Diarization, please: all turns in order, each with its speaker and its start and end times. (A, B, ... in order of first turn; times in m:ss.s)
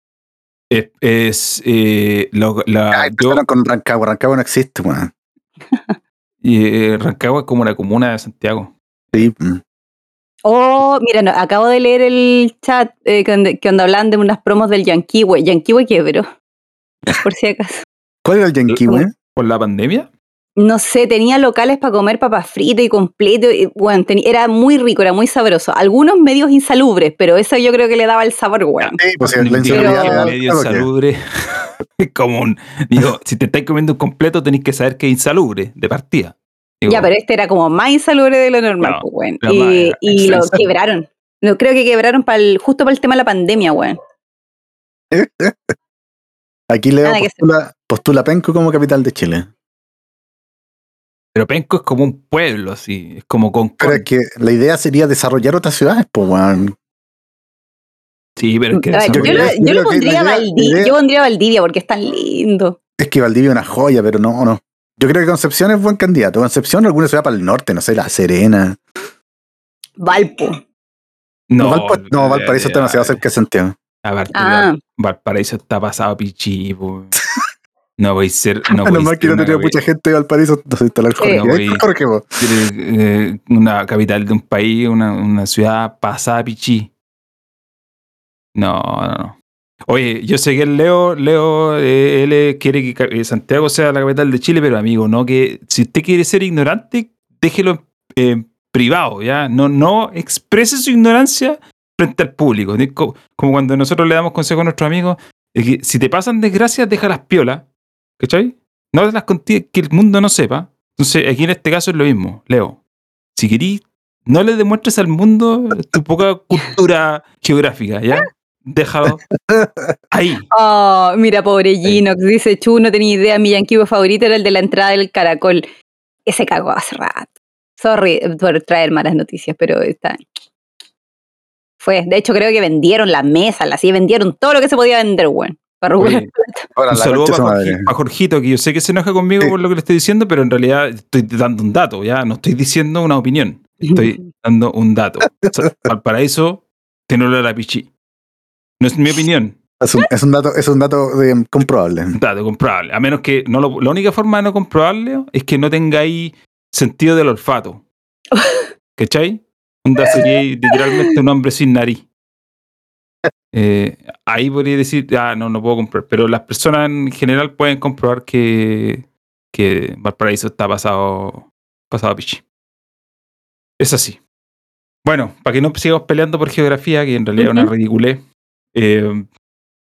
0:00.7-0:03.4 A
0:02.9-0:05.1 B
0:05.7-0:06.0 C
0:06.4-0:09.3 A
0:09.1-0:09.6 B
0:10.4-0:16.2 C
0:17.2-0:17.8 C
0:18.2-0:19.1 B
0:18.7-0:20.1 A
0:20.6-0:29.0 C
0:28.8-0:37.1 A
0:29.0-0:30.9 B
0:29.7-0:30.3 C
0:36.9-0:44.0 C
0:38.8-0:40.7 A
0:45.1-0:45.7 B
0:46.7-0:49.5 B
0:47.0-0:47.5 C
0:51.3-0:54.0 A
0:53.8-0:56.8 B
0:58.4-0:59.5 A
0:58.7-1:02.8 C
0:59.1-1:00.9 B
1:03.0-1:08.8 B
1:10.0-1:10.6 C
1:11.5-1:13.2 A
1:11.6-1:13.7 B
1:14.0-1:17.2 A
1:14.3-1:14.8 C
1:18.0-1:19.8 A
1:18.7-1:22.4 B
1:21.2-1:21.4 C
1:21.2-1:21.8 A
1:22.4-1:26.9 A
1:28.5-1:47.7 A
1:48.2-1:52.8 A
1:53.4-1:59.2 A
1:59.3-1:59.9 B
2:00.1-2:00.4 A
2:00.5-2:05.6 C
2:06.2-2:10.2 C
2:11.8-2:16.6 C
2:16.0-2:16.3 A
2:16.7-2:17.9 B
2:16.9-2:27.9 A
2:23.8-2:24.2 C
2:28.8-2:29.6 A
2:29.8-2:32.2 B
2:32.1-2:37.8 A
2:38.3-2:38.7 C
2:39.0-2:42.1 A
2:40.0-2:41.1 C
2:43.5-2:52.4 A
2:53.8-2:54.2 A
2:55.0-2:59.3 A
2:57.4-2:57.7 C